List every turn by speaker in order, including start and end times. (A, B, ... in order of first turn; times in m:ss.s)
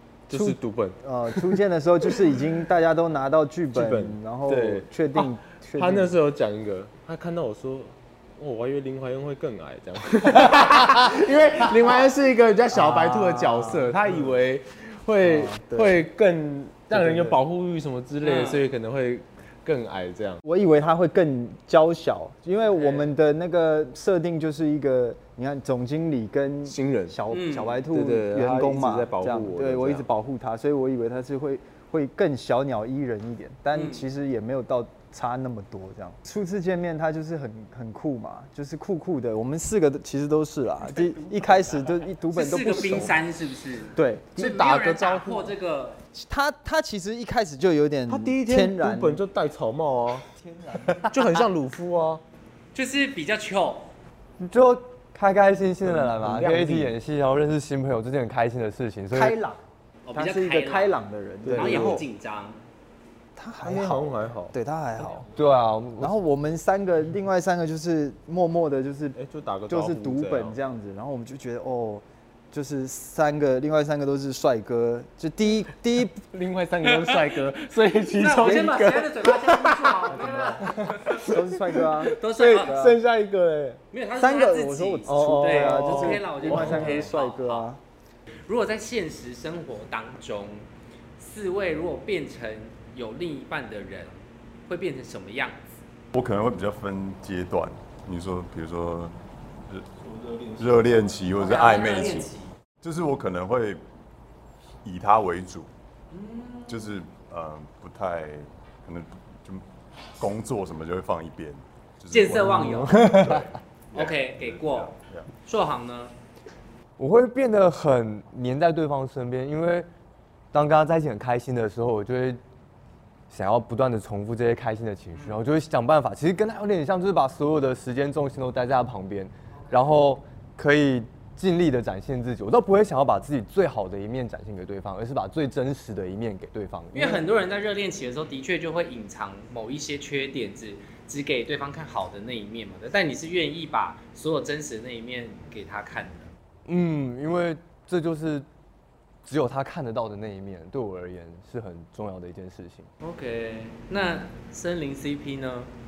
0:00.3-0:01.5 A
0:00.3-0:06.2 B
0:03.7-0:20.4 A
0:12.7-0:14.4 B
0:15.2-0:16.0 B
0:16.9-0:17.4 B
0:18.2-0:18.7 C
0:20.4-0:43.2 B
0:22.7-0:23.2 C
0:26.6-0:27.2 A
0:27.3-0:27.8 C
0:27.9-0:30.1 A
0:33.7-0:34.0 C
0:42.3-0:46.0 C
0:44.0-0:45.4 B
0:44.8-0:45.3 A
0:46.1-0:49.2 B
0:48.1-0:50.3 A
0:50.4-0:51.0 B
0:51.0-0:52.2 A
0:52.7-0:53.9 C
0:54.4-0:59.4 D
0:55.8-0:56.9 A
0:59.1-0:59.6 B
1:00.1-1:02.6 C
1:00.1-1:02.0 B
1:01.4-1:02.0 A
1:03.4-1:05.3 B
1:03.6-1:04.6 A
1:05.3-1:06.2 D
1:06.0-1:16.2 B
1:09.1-1:10.6 A
1:16.1-1:23.8 A
1:18.2-1:21.2 C
1:20.1-1:23.0 B
1:22.2-1:22.8 C
1:23.9-1:27.7 C
1:24.2-1:27.8 B
1:25.0-1:27.0 A
1:28.5-1:30.7 C
1:31.2-1:35.6 C
1:36.1-1:39.2 E
1:40.0-1:41.3 A
1:40.6-1:42.3 E
1:41.4-1:42.5 C
1:42.8-1:43.8 E
1:44.8-1:45.7 E
1:46.1-1:46.9 C
1:46.7-1:49.6 E
1:50.2-1:55.3 E
1:52.1-1:53.1 C
1:52.7-1:53.4 D
1:53.9-1:54.9 C
1:55.4-1:56.1 C
1:57.0-1:59.9 D
2:00.5-2:02.4 D
2:03.3-2:17.2 D
2:05.1-2:05.4 C
2:09.5-2:09.9 C
2:16.9-2:26.3 C
2:26.7-2:28.5 D
2:29.2-2:32.9 D
2:33.0-2:35.7 C